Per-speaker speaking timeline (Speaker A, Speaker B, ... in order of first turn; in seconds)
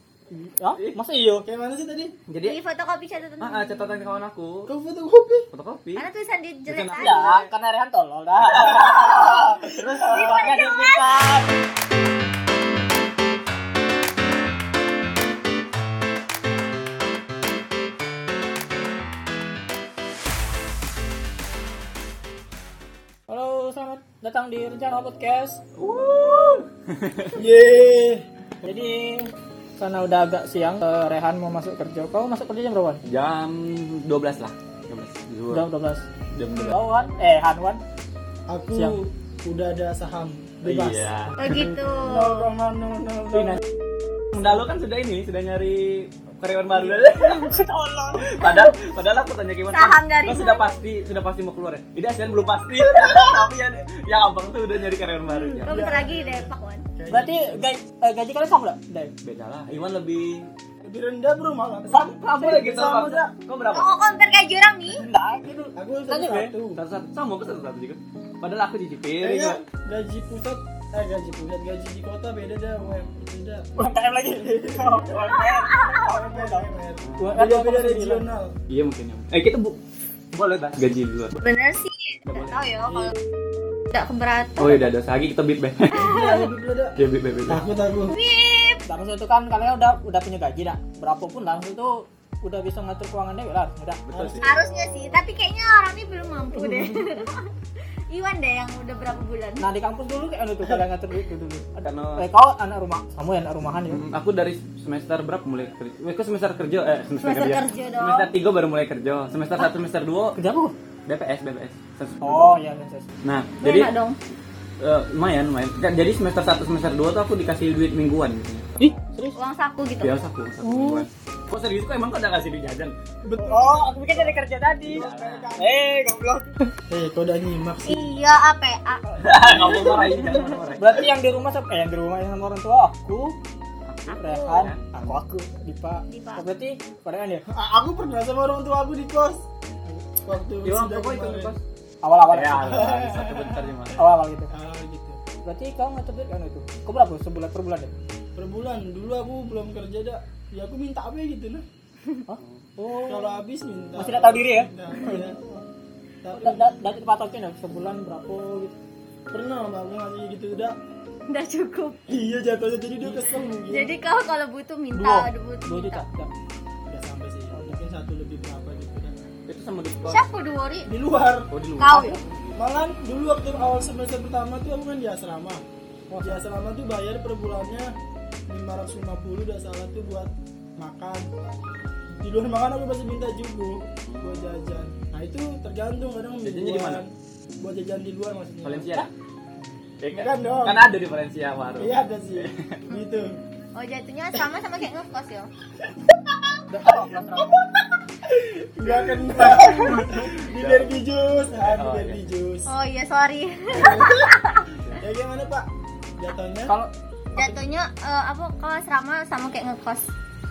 Speaker A: 0.3-1.4, 6.9-11.5, 23.3-25.6, 28.6-33.0, 35.5-36.0, 36.6-37.8, 43.3-43.6, 47.1-48.5, 57.1-59.1, 61.9-63.0, 64.9-66.5, 73.8-78.2, 88.9-94.0, 96.5-97.2, 99.6-104.0, 110.3-110.7, 112.2-113.1, 118.8-119.4, 120.6-121.0, 123.4-125.1, 125.6-126.7, 130.3-133.4, 134.1-137.4, 142.0-143.1, 143.9-144.5, 145.4-147.9, 152.3-153.4, 154.0-155.6, 156.4-158.7, 164.9-166.3, 167.5-167.8, 176.1-176.4, 196.7-197.5, 199.4-200.0, 206.7-207.5
Speaker B: 0.7-1.0, 2.3-2.6, 3.4-4.7, 5.5-6.0, 6.7-7.5, 8.5-9.2, 25.8-27.4, 33.0-35.7, 36.3-36.8, 40.6-41.4, 44.3-47.5, 48.2-55.7, 59.2-60.5, 62.3-63.9, 66.7-69.6, 77.0-77.4, 78.7-79.8, 80.3-81.4, 82.3-83.1, 84.6-86.2, 87.0-87.6, 94.0-94.7, 101.8-102.2, 103.9-110.4, 111.1-112.5, 113.2-113.9, 114.8-119.0, 120.0-122.9, 124.8-125.5, 129.2-130.9, 133.9-135.2, 140.6-141.6, 142.2-144.0, 152.4-152.6, 169.5-170.2, 171.5-172.6, 184.0-184.6, 186.4-187.0, 188.6-189.1, 190.0-192.8, 200.5-201.0, 201.6-202.2
Speaker C: 1.4-2.1, 4.7-5.5, 9.3-10.3, 27.4-28.2, 38.5-43.6, 55.6-57.7, 60.8-63.3, 65.7-66.8, 69.2-73.7, 74.3-78.5, 86.0-88.2, 94.1-95.0, 123.2-125.8, 126.9-128.1, 129.4-130.3, 137.5-141.5, 142.6-143.7, 144.5-145.2, 148.3-151.6, 153.0-155.5, 156.2-156.6, 159.3-160.7, 162.1-163.9, 166.8-169.3, 170.9-175.6, 176.2-177.9, 178.5-181.3, 182.2-189.0, 190.1-190.9, 191.8-193.4, 195.9-202.7, 203.7-204.3, 204.9-205.7, 206.2-206.7
Speaker D: 2.4-4.1, 6.0-7.4, 8.8-11.1, 41.4-42.5, 48.4-48.7, 49.7-50.8, 55.6-56.8, 63.7-65.0, 75.3-76.0, 81.4-83.1, 83.9-84.9, 86.0-86.5, 88.1-88.8, 94.4-97.5, 98.1-99.7, 107.2-108.3, 113.6-114.2, 119.3-120.1, 127.8-130.1, 136.1-136.4, 161.3-162.0, 163.7-166.1, 170.1-170.9, 171.8-172.2, 192.9-195.5, 199.6-199.9, 202.7-204.7, 207.3-210.0